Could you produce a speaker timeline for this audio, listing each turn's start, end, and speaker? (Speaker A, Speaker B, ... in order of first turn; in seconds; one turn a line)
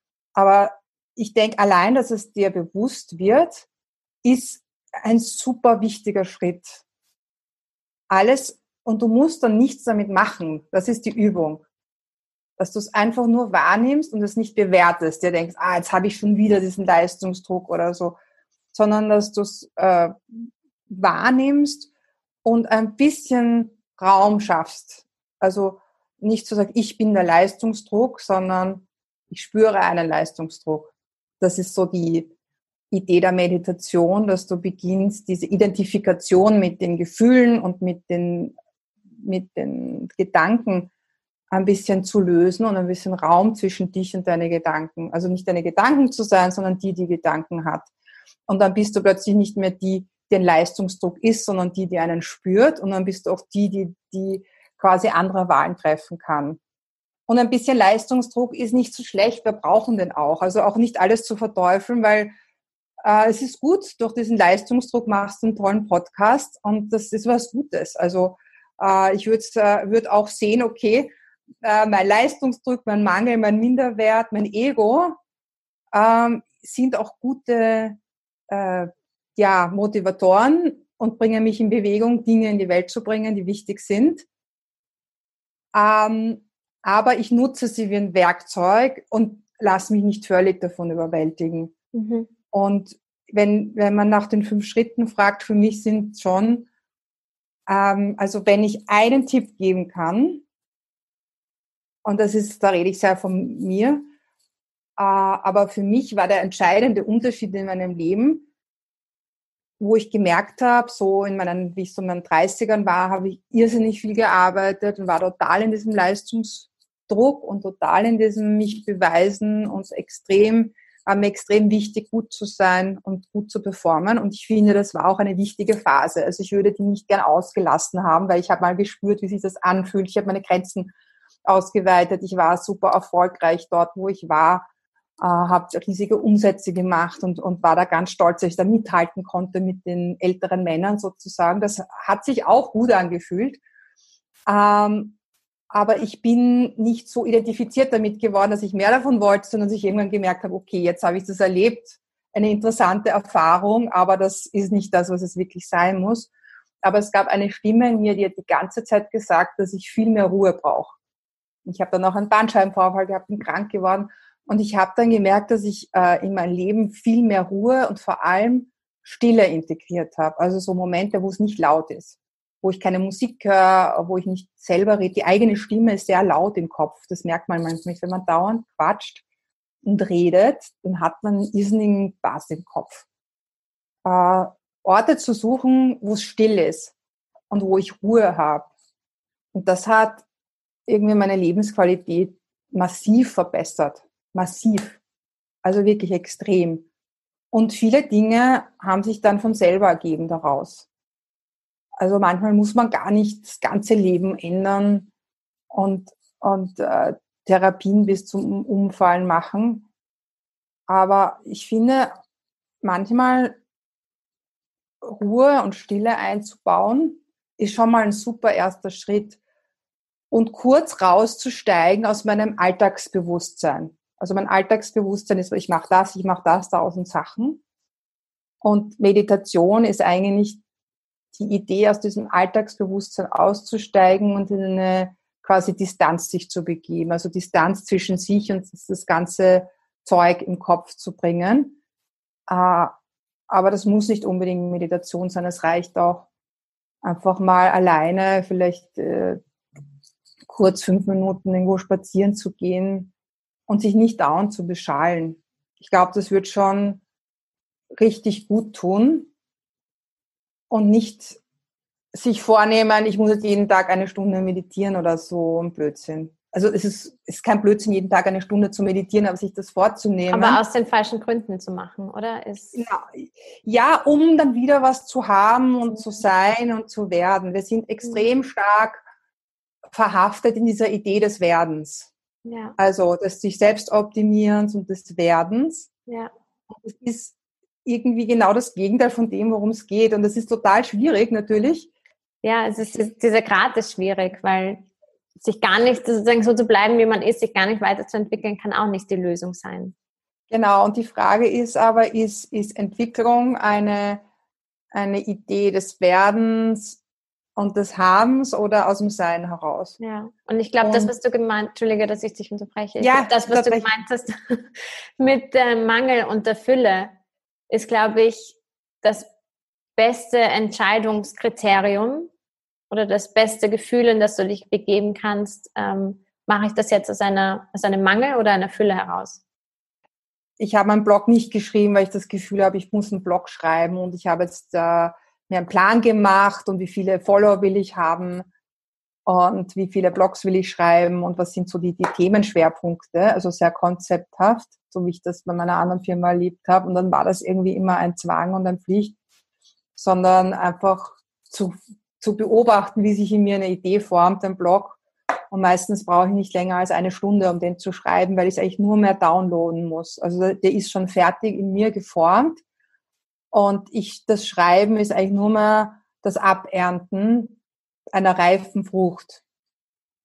Speaker A: 0.3-3.7
Speaker A: 4.2-6.8
Speaker A: 8.1-11.6
Speaker A: 12.6-18.2
Speaker A: 18.7-21.9
Speaker A: 22.4-32.3
Speaker A: 32.9-38.5
Speaker A: 39.2-40.9
Speaker A: 41.5-47.9
Speaker A: 48.5-56.6
Speaker A: 57.3-62.3
Speaker A: 63.0-75.2
Speaker A: 75.9-78.0
Speaker A: 78.5-84.3
Speaker A: 85.7-91.7
Speaker B: 91.9-92.3
Speaker A: 92.5-96.7
Speaker A: 97.7-100.4
Speaker A: 102.0-104.1
Speaker A: 105.0-108.5
Speaker A: 109.8-130.9
Speaker A: 131.4-134.7
Speaker A: 135.2-143.6
Speaker A: 144.4-145.2
Speaker A: 145.7-156.3
Speaker A: 156.8-160.9
Speaker A: 161.6-179.2
Speaker A: 179.8-183.1
Speaker A: 184.0-186.9
Speaker A: 187.5-188.7
Speaker A: 189.5-190.2
Speaker A: 190.9-195.0
Speaker A: 195.6-196.9
Speaker A: 197.5-200.8
Speaker A: 202.0-205.1
Speaker A: 205.7-209.9
Speaker A: 210.9-212.1
Speaker A: 212.8-213.6
Speaker A: 215.0-219.4
Speaker A: 220.3-227.6
Speaker A: 228.6-230.6
Speaker A: 231.3-241.8
Speaker A: 242.5-242.9
Speaker A: 243.5-246.3
Speaker A: 247.0-249.4
Speaker A: 250.5-253.1
Speaker A: 253.7-257.0
Speaker A: 258.0-259.3
Speaker A: 260.7-261.4
Speaker A: 262.1-270.6
Speaker B: 270.3-272.8
Speaker A: 272.7-279.0
Speaker A: 279.9-282.1
Speaker B: 282.4-282.8
Speaker A: 282.8-285.9
Speaker B: 286.1-286.3
Speaker A: 286.7-291.9
Speaker B: 292.4-294.9
Speaker B: 295.4-299.9
Speaker A: 300.5-304.2
Speaker A: 304.9-307.0
Speaker A: 307.6-310.0
Speaker B: 310.0-317.1
Speaker A: 310.8-311.1
Speaker A: 313.0-313.9
Speaker B: 317.7-319.3
Speaker B: 320.0-322.3
Speaker B: 322.9-329.4
Speaker A: 330.6-338.5
Speaker A: 339.2-349.1
Speaker A: 349.9-355.0
Speaker A: 355.5-362.6
Speaker A: 363.5-367.6
Speaker A: 368.1-369.4